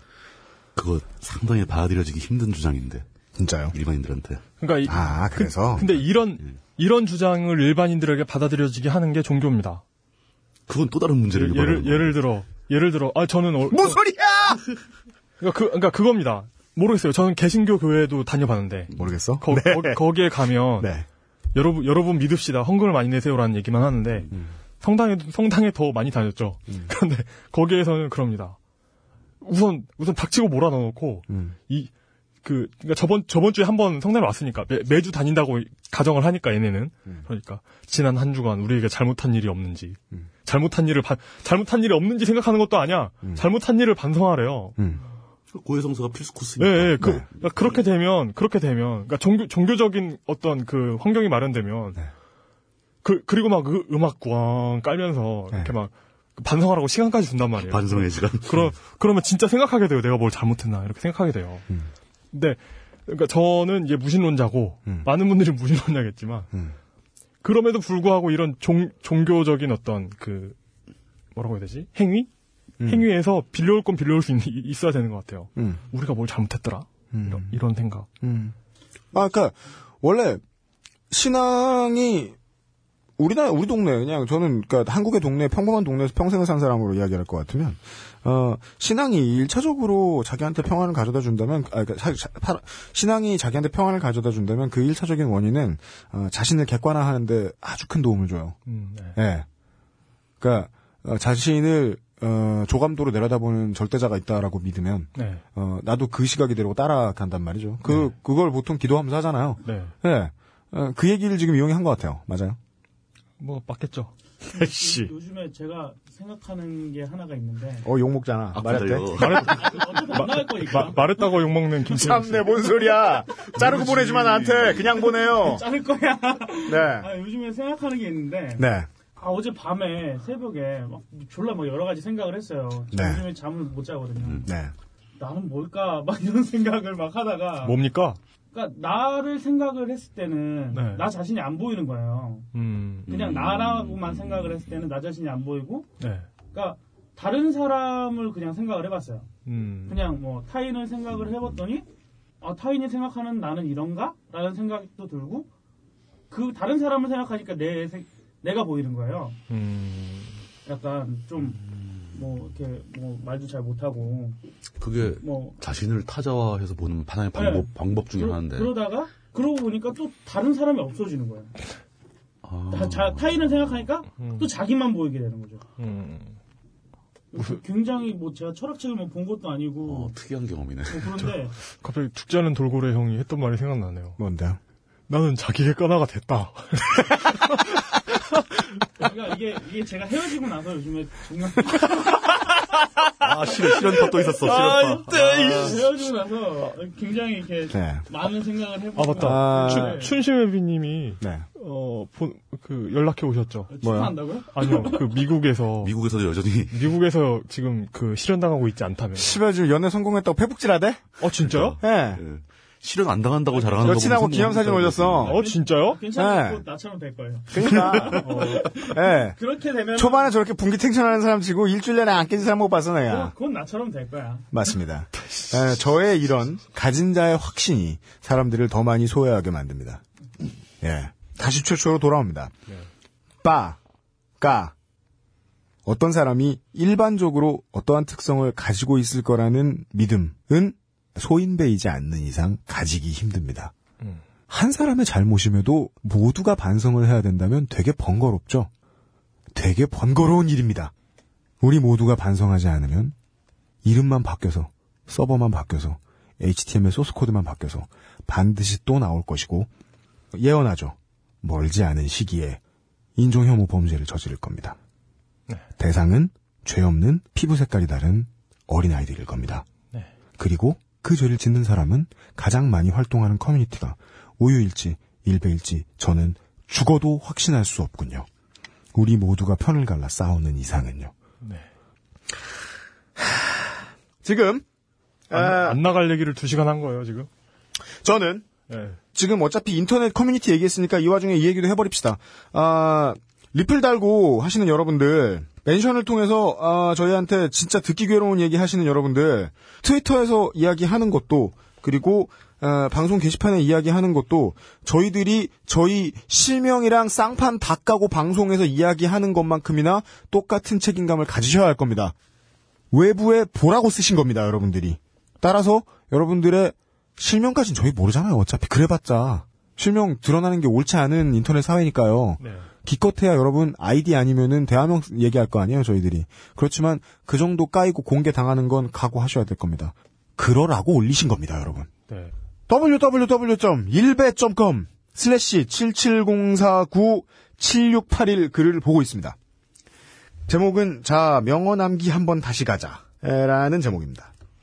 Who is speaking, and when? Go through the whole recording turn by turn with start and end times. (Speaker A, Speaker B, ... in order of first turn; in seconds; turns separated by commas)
Speaker A: 0.8-3.0, Speaker B: 3.4-3.7, Speaker A: 3.7-4.4, Speaker C: 4.6-9.8, Speaker B: 4.9-5.8, Speaker A: 10.7-12.2, Speaker C: 11.3-14.0, Speaker B: 13.7-14.6, Speaker C: 15.4-20.9, Speaker B: 18.9-20.0, Speaker B: 20.8-21.0, Speaker C: 21.5-28.6, Speaker C: 29.4-31.9, Speaker B: 31.3-31.5, Speaker C: 32.4-44.8, Speaker A: 45.5-47.7, Speaker C: 46.6-52.0, Speaker C: 53.0-61.6, Speaker A: 57.6-58.7, Speaker C: 62.3-66.5, Speaker C: 67.4-70.5, Speaker C: 71.3-72.3, Speaker B: 72.8-73.0, Speaker C: 72.8-78.1, Speaker B: 77.1-77.6, Speaker B: 78.2-78.5, Speaker B: 79.1-80.4, Speaker B: 81.1-82.3, Speaker B: 83.2-98.6, Speaker C: 98.7-99.2, Speaker B: 99.2-99.5, Speaker B: 100.4-112.6, Speaker C: 105.2-105.4, Speaker C: 109.6-109.9, Speaker C: 113.4-114.9, Speaker D: 114.5-117.9, Speaker B: 114.6-115.1, Speaker B: 117.8-119.2, Speaker A: 118.5-119.9, Speaker C: 119.2-122.6, Speaker D: 119.2-122.1, Speaker B: 121.9-125.6, Speaker D: 124.8-134.5, Speaker B: 126.7-127.1, Speaker B: 128.6-128.9, Speaker B: 132.9-133.2, Speaker A: 134.2-134.5, Speaker B: 134.4-134.7, Speaker D: 135.2-137.8, Speaker C: 137.6-138.2, Speaker D: 138.5-142.5, Speaker C: 140.7-141.1, Speaker C: 142.5-143.1, Speaker A: 143.1-144.7, Speaker D: 143.1-145.9, Speaker C: 146.0-146.3, Speaker D: 146.5-149.3, Speaker C: 149.4-150.0, Speaker D: 149.9-151.9, Speaker A: 151.2-151.5, Speaker D: 152.4-155.5, Speaker D: 156.3-159.4, Speaker C: 159.5-160.4, Speaker D: 160.7-161.6, Speaker D: 162.1-164.4, Speaker A: 164.8-168.8, Speaker D: 165.2-165.6, Speaker D: 167.3-171.5, Speaker A: 172.4-173.8, Speaker D: 172.7-175.7, Speaker C: 174.2-174.5, Speaker C: 175.8-176.4, Speaker D: 177.3-180.1, Speaker A: 179.8-181.3, Speaker D: 180.8-181.5, Speaker C: 181.8-184.2, Speaker B: 184.2-184.6, Speaker C: 185.1-187.8, Speaker D: 189.0-192.4, Speaker A: 193.2-195.8, Speaker C: 193.6-195.8, Speaker D: 193.7-200.2, Speaker B: 197.7-198.0, Speaker C: 198.9-203.7, Speaker B: 199.2-200.0, Speaker D: 203.7-205.1, Speaker B: 203.8-204.2, Speaker C: 204.5-205.9, Speaker A: 205.8-206.9, Speaker C: 206.7-209.4, Speaker B: 209.2-211.1, Speaker C: 211.2-211.8, Speaker A: 211.4-215.4, Speaker B: 211.8-212.2, Speaker B: 213.8-215.4, Speaker C: 215.2-216.0, Speaker D: 215.3-220.4, Speaker B: 216.2-216.6, Speaker B: 217.5-219.4, Speaker C: 218.2-218.6, Speaker B: 219.9-223.3, Speaker D: 223.0-224.5, Speaker B: 224.5-230.0, Speaker B: 230.8-232.5, Speaker B: 233.4-233.8, Speaker B: 234.4-234.7, Speaker B: 235.8-243.7, Speaker B: 244.5-248.7, Speaker B: 249.5-250.9, Speaker B: 251.6-253.1, Speaker B: 253.8-259.7, Speaker B: 260.3-262.6, Speaker B: 263.2-264.8, Speaker B: 265.8-269.6, Speaker B: 270.4-278.3, Speaker B: 278.9-281.1, Speaker C: 281.4-281.7, Speaker B: 283.2-284.6, Speaker B: 285.3-285.8, Speaker C: 285.3-287.3, Speaker B: 288.0-288.4, Speaker C: 288.7-289.0, Speaker B: 289.1-312.1, Speaker B: 312.9-331.9, Speaker C: 322.4-322.7, Speaker C: 332.1-332.3, Speaker B: 332.7-339.4, Speaker B: 340.5-344.3